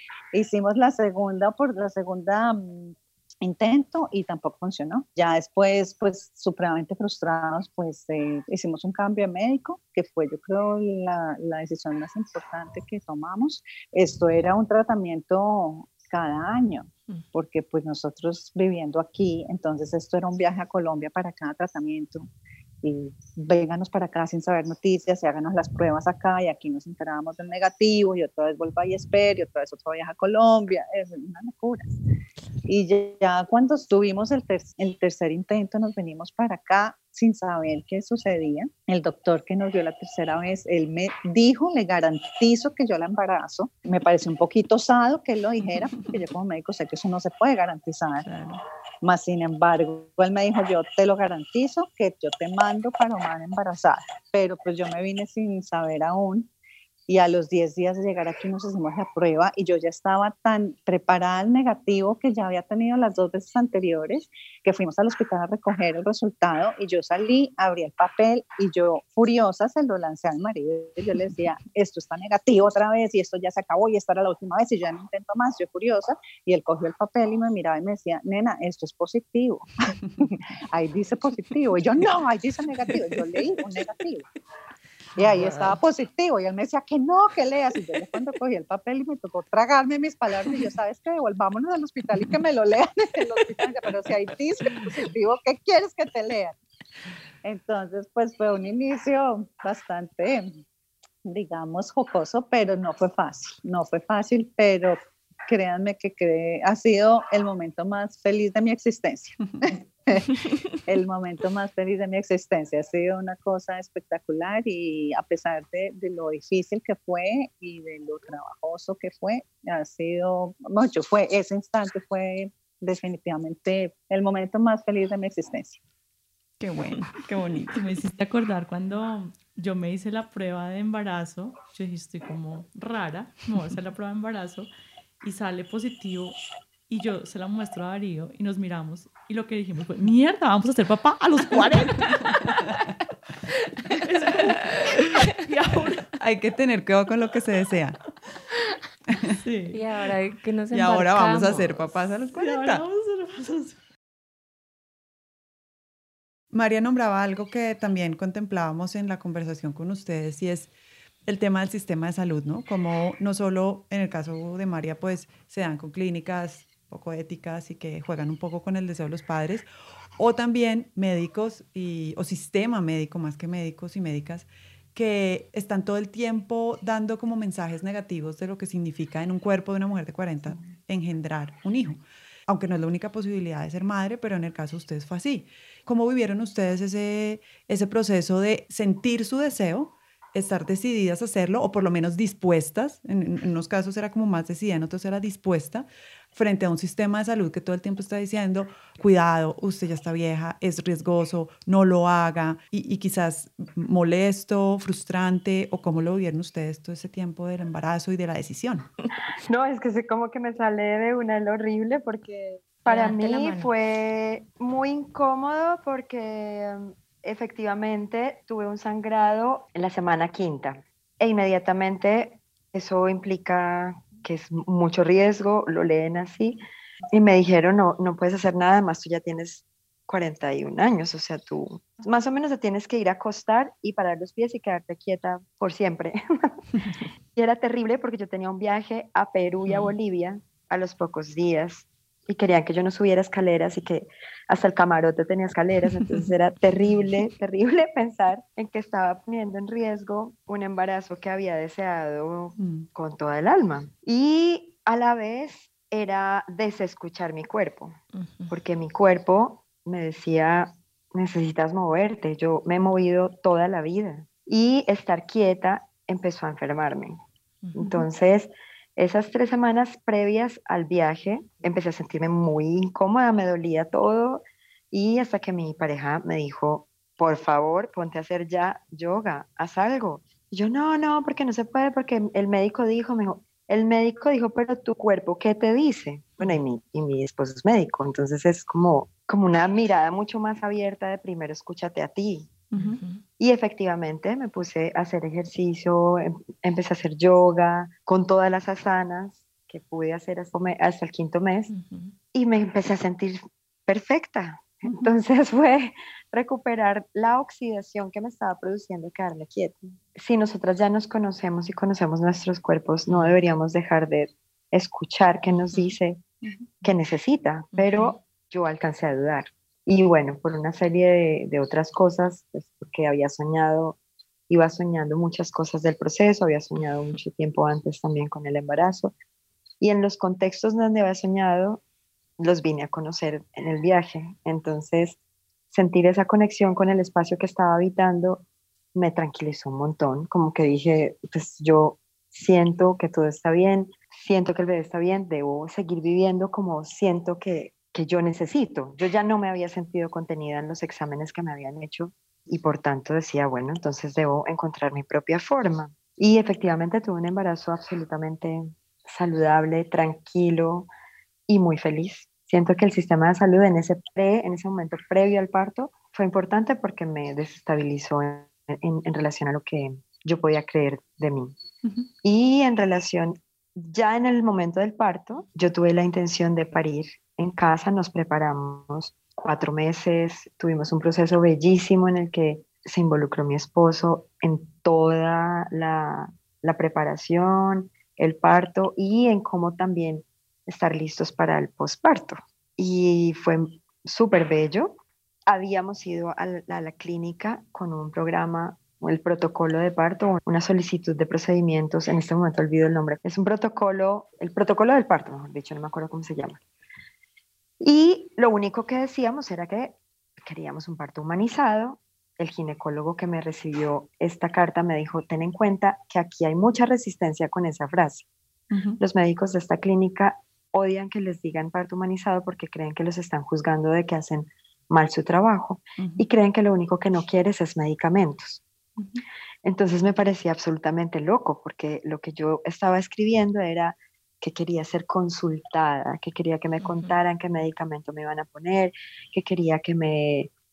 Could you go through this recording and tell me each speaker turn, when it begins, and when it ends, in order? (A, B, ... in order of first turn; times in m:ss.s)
0:00.3-0:22.3 A
0:22.8-0:31.9 A
0:32.6-0:48.3 A
0:48.2-0:48.6 B
0:49.0-0:56.5 A
0:57.1-1:24.3 A
1:25.2-1:36.6 A
1:37.4-1:40.6 A
1:41.2-2:05.8 A
2:06.6-2:07.8 C
2:07.7-2:14.7 B
2:15.2-2:16.4 B
2:16.9-2:22.6 B
2:23.9-2:25.0 D
2:23.9-2:26.2 B
2:26.2-2:28.0 C
2:29.4-2:29.8 B
2:29.7-2:31.7 D
2:30.7-2:32.8 C
2:32.3-2:33.8 B
2:36.5-2:40.7 C
2:41.2-2:49.7 C
2:50.2-3:28.9 C
3:29.4-4:18.0 E
3:32.9-3:33.7 D
4:12.6-4:12.9 B
4:18.1-4:18.6 D
4:18.5-4:27.2 E
4:27.6-4:28.0 D
4:27.7-4:52.6 E
4:52.7-4:53.0 B
4:52.8-4:53.2 D
4:53.4-5:01.7 E
5:01.7-5:02.1 D
5:02.3-5:16.2 E
5:16.4-5:16.9 B
5:16.8-5:24.0 E
5:17.7-5:18.1 D
5:24.5-5:29.1 E
5:29.8-5:31.8 E
5:32.4-5:35.2 E
5:35.7-5:38.4 E
5:38.9-6:00.9 E
6:01.5-6:11.6 E
6:12.2-6:46.6 E
6:47.8-6:58.3 E
6:58.7-6:59.0 B
6:59.0-7:08.6 E
7:06.0-7:06.2 B
7:09.0-7:09.2 B
7:09.6-7:20.5 E
7:16.8-7:17.2 D